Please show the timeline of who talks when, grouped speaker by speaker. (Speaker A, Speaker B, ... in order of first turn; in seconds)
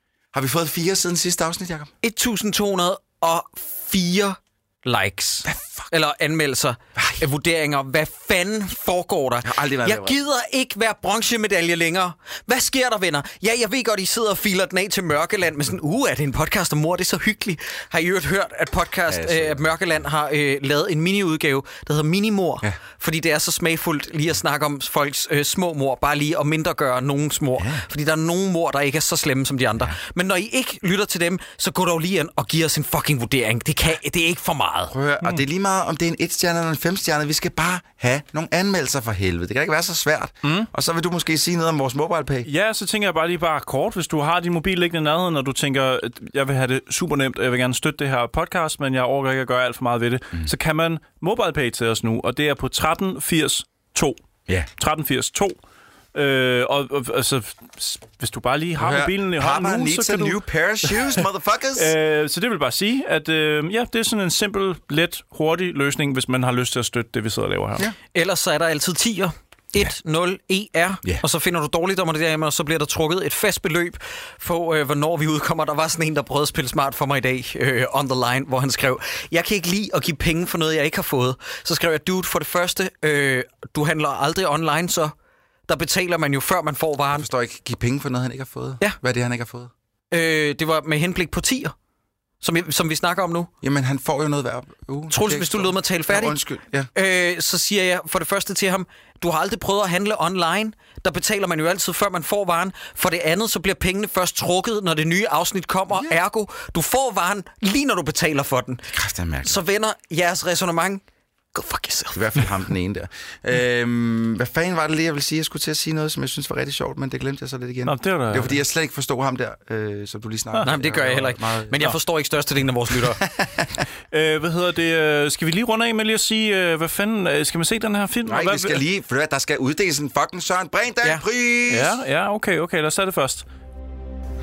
Speaker A: 0.3-1.9, 5.4-5.9, 9.4-10.2, 19.1-19.7, 27.6-27.8, 34.9-42.5, 58.8-61.9, 87.1-89.7, 93.6-96.9, 108.9-109.6, 112.1-121.8, 123.2-123.8, 128.2-131.9
Speaker B: 2.0-35.0, 68.1-85.1, 85.7-87.3, 90.1-91.7, 92.4-93.5, 95.1-96.4, 96.9-108.8, 109.4-111.0, 111.5-112.5, 120.6-123.2
Speaker C: 40.4-40.7, 42.4-54.2, 54.8-55.6, 56.1-61.0, 61.8-67.9, 117.8-118.6, 124.1-128.8, 131.7-133.4